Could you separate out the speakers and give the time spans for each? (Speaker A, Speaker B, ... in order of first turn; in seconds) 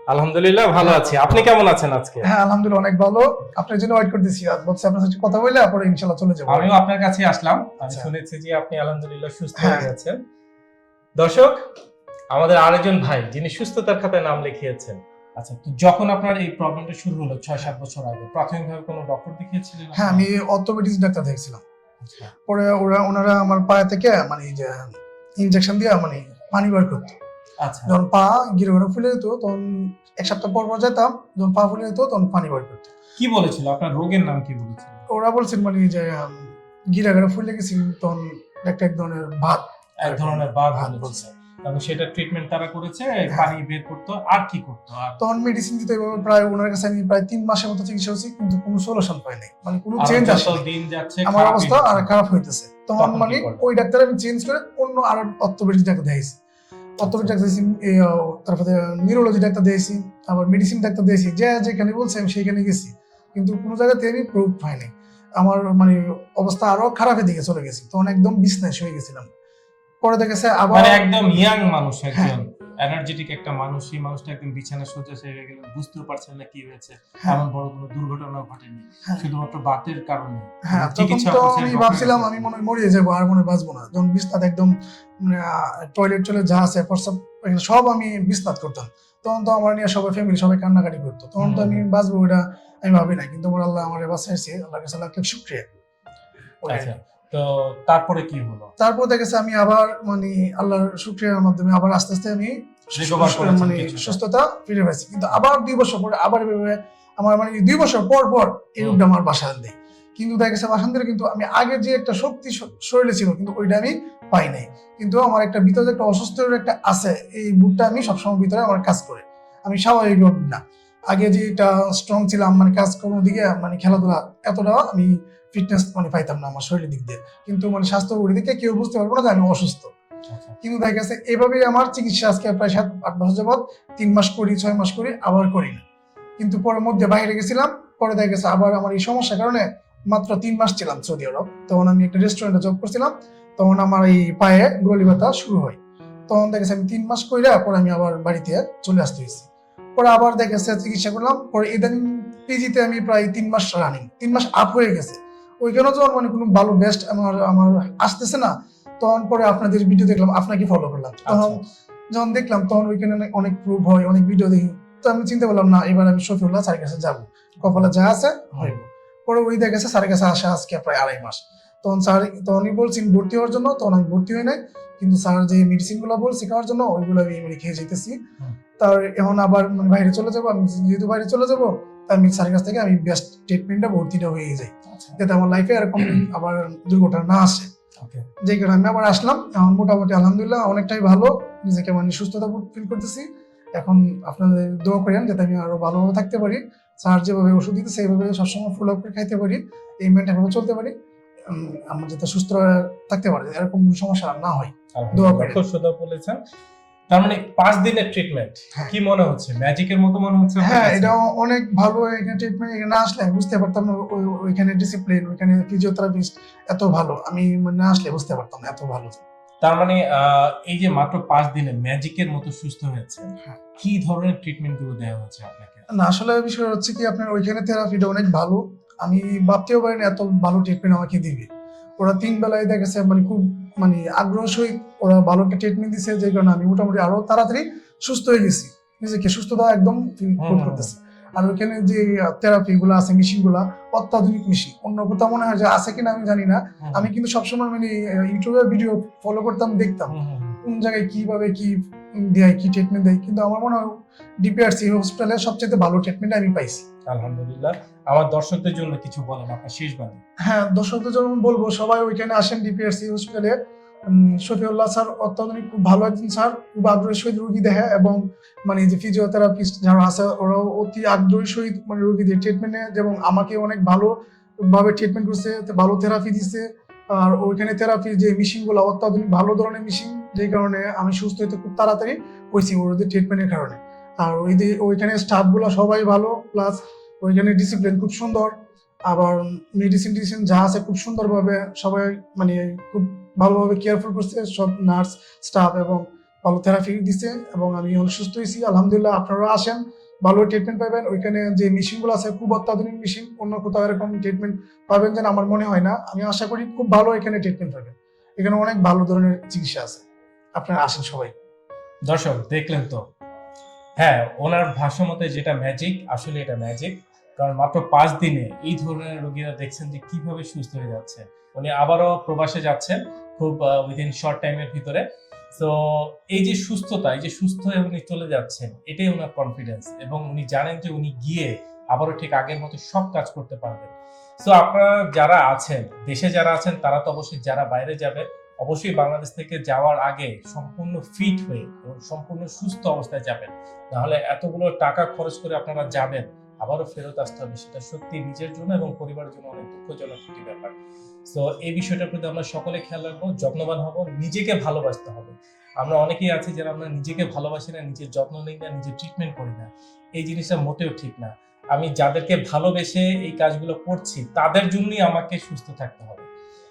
Speaker A: 0.1-2.3, 6.5-10.2, 11.2-11.6, 12.3-20.3, 22.0-22.3, 27.6-27.9, 33.2-35.0, 40.0-45.2, 50.0-52.1, 53.0-53.6, 57.0-57.4, 70.7-82.5, 91.4-91.8, 96.7-98.7, 103.0-104.2, 130.3-130.6, 161.3-161.6, 167.6-167.9, 184.9-185.2, 188.0-188.3, 204.9-206.4, 207.1-211.1, 219.6-225.8, 240.4-240.9, 246.8-247.1, 250.1-250.6, 257.1-260.2, 312.1-313.0, 314.0-325.0, 325.6-333.9, 334.4-350.8, 351.3-366.3
Speaker B: 0.8-1.5, 2.2-6.7, 7.8-8.1, 9.6-9.9, 19.9-21.6, 22.5-27.2, 27.9-32.9, 35.1-41.2, 45.2-50.6, 51.2-56.4, 57.0-69.3, 70.0-71.1, 80.7-95.7, 96.6-96.9, 98.8-129.9, 130.6-135.8, 136.4-145.8, 146.3-161.6, 162.1-178.2, 178.8-187.7, 188.4-200.9, 201.5-205.6, 210.6-219.2, 226.0-231.5, 232.0-250.1, 250.7-253.9, 254.4-256.9, 260.4-263.5, 264.1-288.6, 289.1-310.1, 310.6-311.3